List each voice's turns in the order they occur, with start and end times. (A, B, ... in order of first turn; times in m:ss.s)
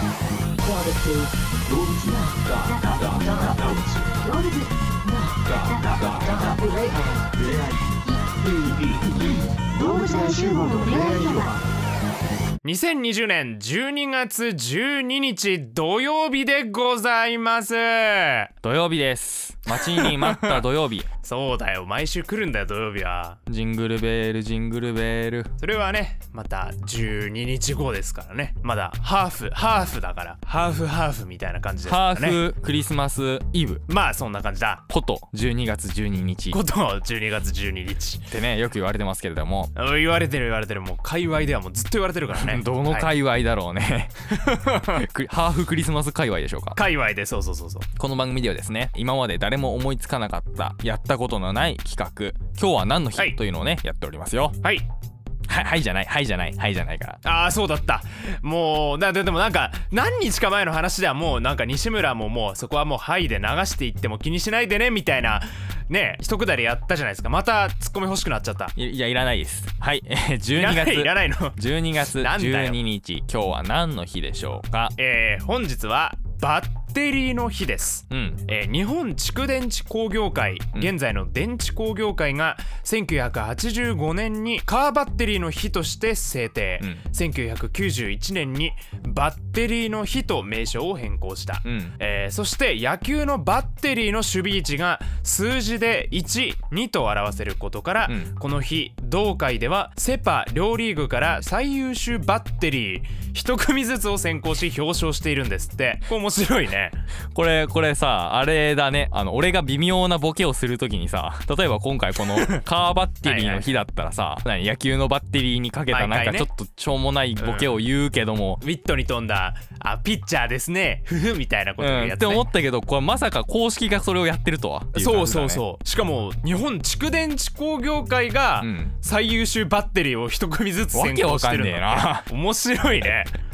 0:00.6-0:11.6 A
0:12.6-0:18.5 B
0:18.6-0:21.1 C
0:19.7-0:20.6 B
0:21.2-0:23.4 B
0:23.5-0:25.5 C
0:25.6-0:32.4 B
0:31.8-0:33.8 C
0:33.9-0:34.8 B
0:34.9-0:36.6 C
0:36.5-0:38.3 B
0:38.3-0:39.7 C
0:39.7-0:43.1 B
0:42.3-0:46.8 C
0:44.4-0:45.0 B
0:46.7-0:47.9 B
0:48.0-0:54.6 C
0:55.5-0:57.2 C
0:57.2-1:08.7 B
1:08.7-1:14.9 C
1:10.5-1:12.8 B
1:14.9-1:47.0 B
1:18.1-1:18.4 C
1:31.6-1:32.0 C
1:38.0-1:38.3 C
1:47.3-1:58.6 C
1:52.3-1:52.6 B
1:53.2-1:53.7 B
1:55.9-1:56.5 B
1:57.4-1:57.8 B
1:58.6-2:02.5 B
2:01.8-2:05.6 C
2:04.9-2:13.4 B
2:08.6-2:09.0 C
2:10.9-2:12.3 C